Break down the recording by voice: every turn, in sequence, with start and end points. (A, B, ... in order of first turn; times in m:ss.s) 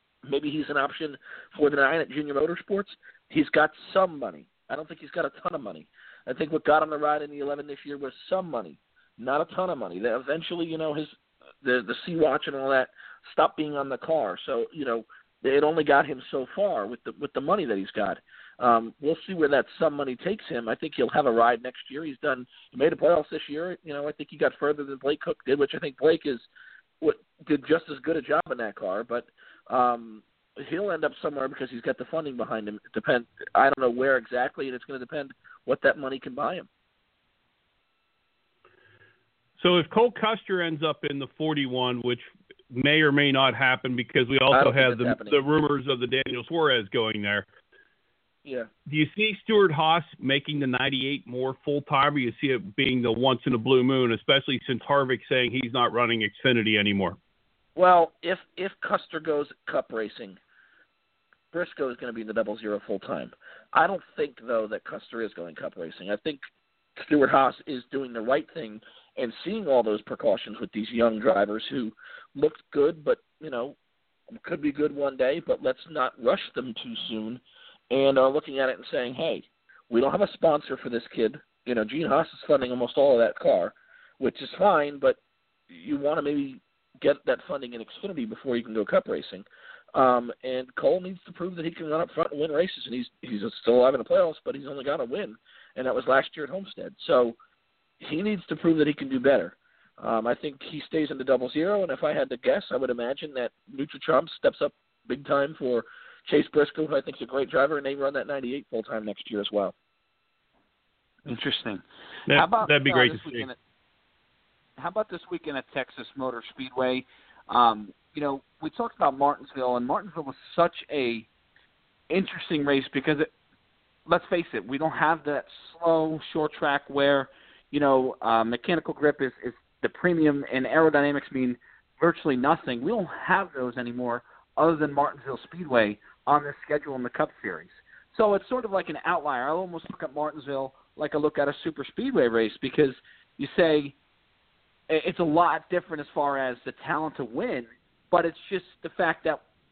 0:00.2-0:26.5 A
0:27.0-0:36.7 A
0:39.6-0:47.4 B
0:44.5-0:45.4 A
0:48.9-0:57.2 B
0:57.8-1:00.4 A
1:01.5-1:06.4 A
1:07.0-1:13.8 A
1:14.4-1:25.2 A
1:25.7-1:37.4 A
1:38.0-1:49.7 A
1:51.3-1:53.6 C
1:52.3-1:53.5 B
1:54.8-2:01.3 C
2:02.1-2:03.3 C
2:04.1-2:24.0 C
2:24.9-2:29.4 C